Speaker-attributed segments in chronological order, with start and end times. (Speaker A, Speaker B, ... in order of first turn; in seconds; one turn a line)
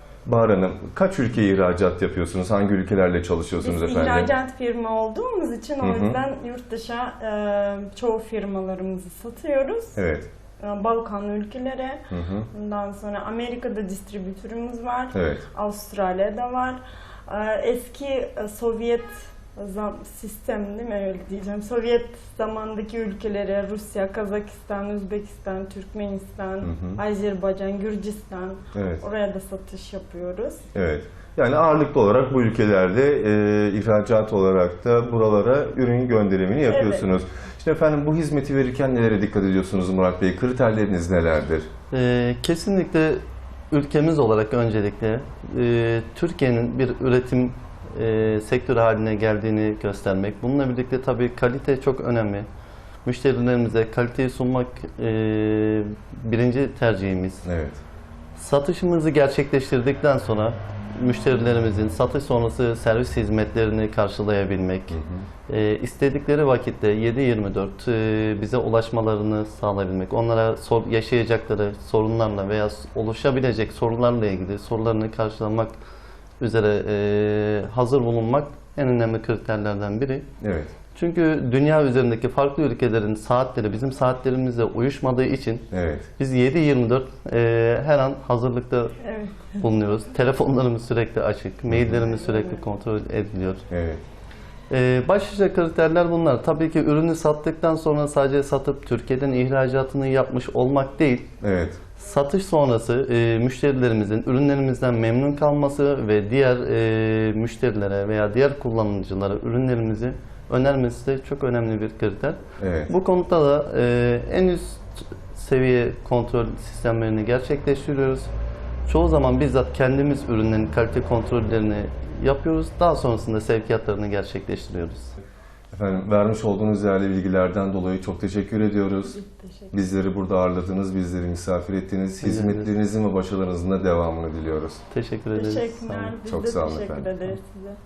Speaker A: 0.2-4.3
Speaker B: 3.6-9.9
Speaker A: 5.8-6.2
Speaker A: 9.9-10.3
Speaker B: 10.6-30.7
Speaker A: 12.1-12.5
Speaker A: 15.1-15.4
Speaker A: 26.6-27.0
Speaker A: 28.7-29.0
Speaker A: 30.7-41.7
Speaker B: 36.7-37.0
Speaker C: 41.9-52.5
Speaker C: 53.0-57.4
Speaker A: 57.4-57.8
Speaker C: 58.4-75.8
Speaker A: 64.9-65.2
Speaker C: 76.4-80.3
Speaker A: 80.4-80.7
Speaker C: 80.9-85.7
Speaker A: 85.7-86.1
Speaker C: 86.2-88.9
Speaker B: 89.0-89.6
Speaker C: 89.6-93.6
Speaker A: 91.7-92.1
Speaker A: 93.7-94.0
Speaker C: 94.7-101.3
Speaker A: 101.4-101.8
Speaker C: 102.0-118.3
Speaker A: 112.6-112.9
Speaker C: 118.8-125.1
Speaker A: 125.7-129.2
Speaker B: 129.1-129.7
Speaker A: 129.7-134.8
Speaker C: 132.2-132.7
Speaker C: 134.9-136.1
Speaker B: 135.3-137.8
Speaker A: 136.2-137.1